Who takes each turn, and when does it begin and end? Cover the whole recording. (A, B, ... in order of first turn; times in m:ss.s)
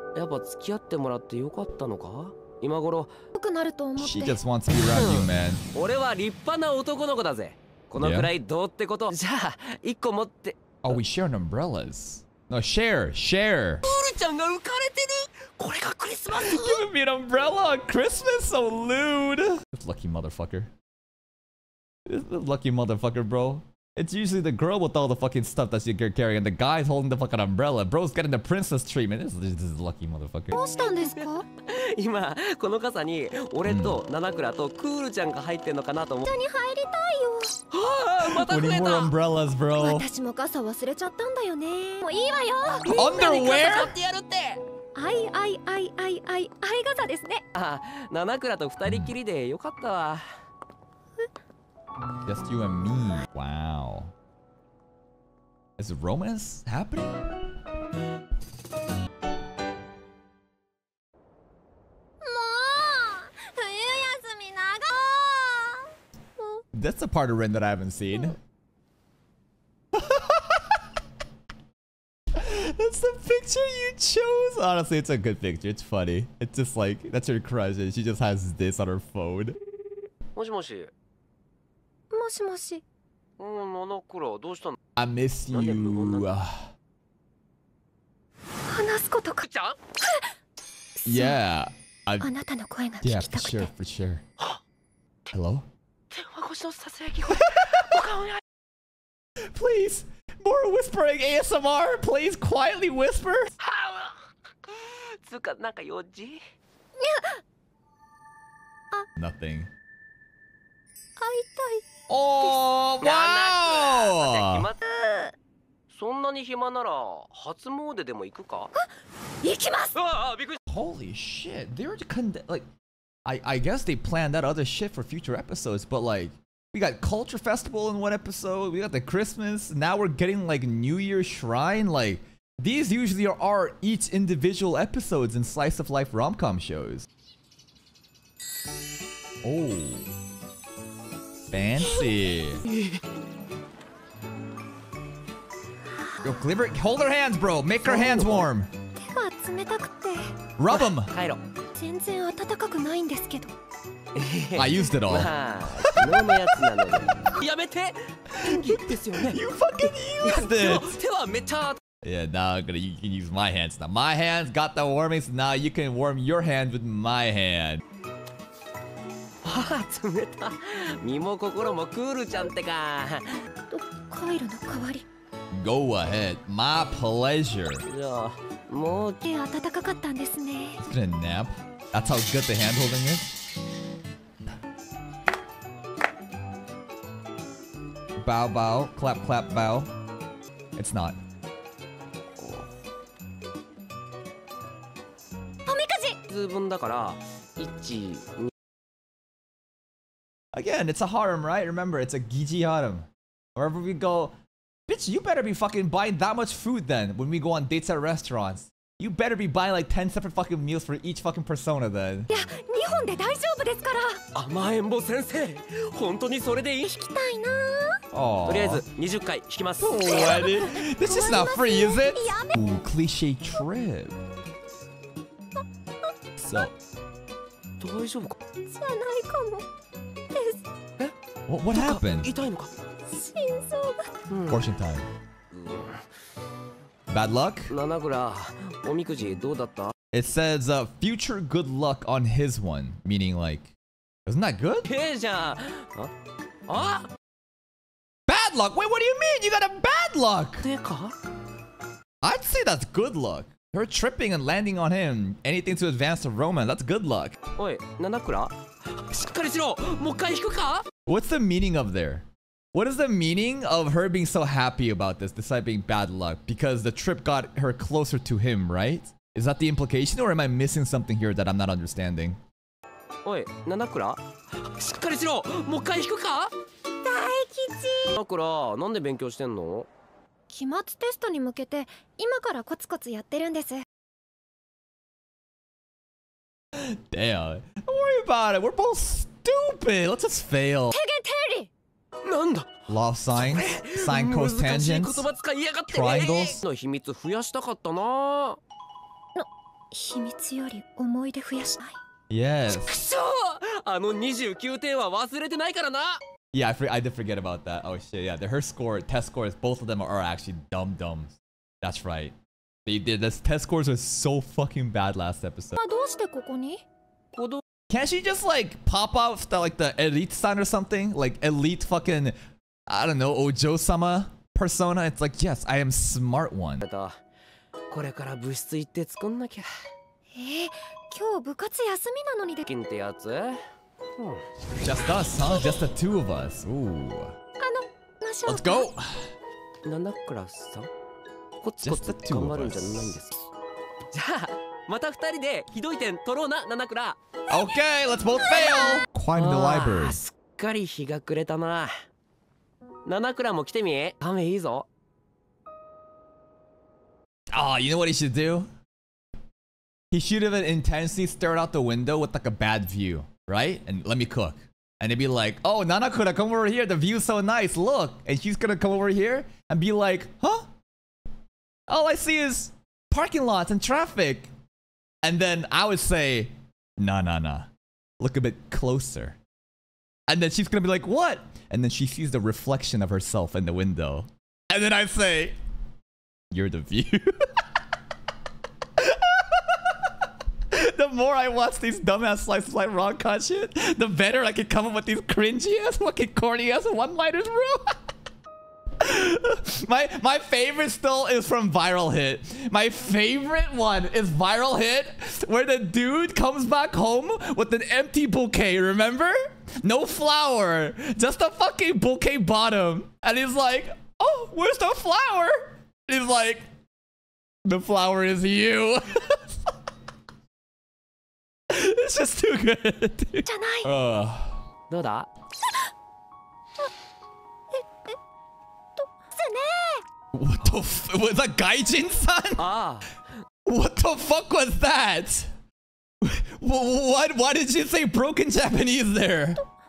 0:00.2-0:03.2 A
0:03.4-0:04.4 B
0:04.0-0:05.6 C
0:04.8-0:11.0 A
0:08.0-0:08.3 C
0:10.8-0:13.9 C
0:13.8-0:16.9 A
0:16.3-0:20.7 C
0:22.1-0:30.6 C
0:30.5-0:31.4 B
0:30.8-0:36.3 A
0:33.7-0:34.0 C
0:36.2-0:37.6 B
0:37.7-0:39.1 A
0:38.2-0:40.1 C
0:39.8-0:43.9 B
0:42.9-0:43.9 C
0:43.0-0:44.6 A
0:45.0-0:47.4 B
0:47.5-0:50.2 A
0:48.8-0:49.1 C
0:52.3-0:54.1 C
0:55.8-0:57.2 C
1:02.2-1:06.6 B
1:06.7-1:08.4 C
1:09.9-1:10.6 C
1:12.3-1:19.6 C
1:20.4-1:20.9 A
1:22.1-1:22.8 B
1:23.4-1:24.8 A
1:25.0-1:26.7 C
1:25.5-1:26.3 A
1:28.7-1:29.4 B
1:29.4-1:29.8 A
1:31.0-1:31.4 B
1:31.1-1:32.3 C
1:32.2-1:33.7 B
1:33.0-1:34.2 C
1:35.3-1:35.7 C
1:36.1-1:38.4 A
1:37.4-1:37.8 C
1:39.4-1:43.5 C
1:43.6-1:46.4 A
1:47.0-1:47.4 B
1:49.2-1:49.7 C
1:51.2-1:51.9 B
1:52.1-1:54.7 C
1:53.0-1:54.8 A
1:54.9-1:55.3 B
1:55.9-1:58.7 A
1:59.4-2:00.0 B
2:00.0-2:00.6 A
2:00.7-2:02.7 C
2:03.3-2:17.1 C
2:19.4-2:20.1 C
2:21.5-2:22.6 C
2:22.7-2:23.0 A
2:26.2-2:28.7 C
2:27.8-2:28.5 A
2:29.0-2:30.3 B
2:30.6-2:31.1 C
2:30.7-2:31.4 A
2:31.8-2:33.5 B
2:34.2-2:39.4 A
2:34.6-2:36.7 C
2:38.4-2:41.0 C
2:40.2-2:41.8 A
2:42.0-2:47.8 C
2:49.4-2:53.4 A
2:53.7-2:55.0 B
2:55.5-2:57.8 C
2:57.8-2:59.2 A
2:59.3-3:00.8 B
3:00.8-3:03.3 C
3:08.2-3:09.9 C
3:10.8-3:11.2 C
3:12.4-3:12.7 A
3:15.7-3:16.2 B
3:16.3-3:18.5 A
3:20.5-3:24.4 C
3:24.9-3:32.3 C
3:32.3-3:34.2 B
3:34.3-3:36.9 A
3:36.8-3:38.0 B
3:38.1-3:38.8 C
3:38.5-3:40.3 A
3:39.8-3:44.2 C
3:40.0-3:42.7 B
3:46.4-3:46.7 C
3:47.8-3:48.4 A
3:48.7-3:49.7 B
3:50.3-3:50.7 B
3:51.5-3:52.3 C
3:51.7-3:52.7 A
3:53.1-3:54.2 B
3:54.3-3:54.6 A
3:54.5-3:55.1 C
3:55.5-3:56.1 A
3:57.1-3:57.7 C
3:57.7-3:59.9 A
4:00.1-4:03.7 C
4:04.3-4:04.9 C
4:04.9-4:06.1 A
4:06.7-4:07.1 A
4:08.3-4:10.7 C
4:10.6-4:11.2 A
4:12.2-4:17.4 C
4:17.6-4:20.9 A
4:21.1-4:32.4 C
4:33.2-4:36.5 A
4:37.0-4:38.2 B
4:38.1-4:39.9 A
4:40.5-4:43.8 B
4:46.7-4:51.0 C
4:50.9-4:51.7 B
4:52.2-4:52.8 A
4:52.9-4:55.3 C
4:53.3-4:58.6 A
4:55.9-4:56.6 C
4:59.4-5:02.0 B
5:02.3-5:03.0 C
5:02.7-5:06.2 A
5:06.5-5:12.4 C
5:12.9-5:15.8 C
5:15.8-5:16.8 B
5:17.3-5:17.6 A
5:17.9-5:22.4 C
5:22.9-5:26.8 C
5:26.8-5:27.2 A
5:27.9-5:29.7 A
5:30.3-5:32.6 B
5:32.6-5:33.6 A
5:34.2-5:34.5 A
5:34.8-5:37.4 C
5:37.6-5:38.9 B
5:38.5-5:39.3 C
5:39.8-5:40.9 A
5:41.6-5:43.4 A
5:41.8-5:43.2 C
5:44.1-5:47.2 A
5:47.5-5:50.2 C
5:48.5-5:49.0 B
5:49.3-5:51.9 A
5:53.0-5:54.9 A
5:57.5-5:58.7 C
6:00.1-6:10.7 C
6:11.9-6:14.5 C
6:15.2-6:19.4 C
6:20.3-6:25.6 C
6:26.5-6:27.4 C
6:29.0-6:29.8 C
6:30.7-6:38.0 C
6:39.0-6:56.7 C
6:57.6-6:59.6 C
7:01.7-7:04.6 C
7:03.5-7:03.9 B
7:04.9-7:05.3 A
7:07.7-7:08.2 B
7:09.0-7:10.0 B
7:10.3-7:12.7 C
7:12.6-7:13.2 A
7:13.7-7:15.5 C
7:16.2-7:19.6 C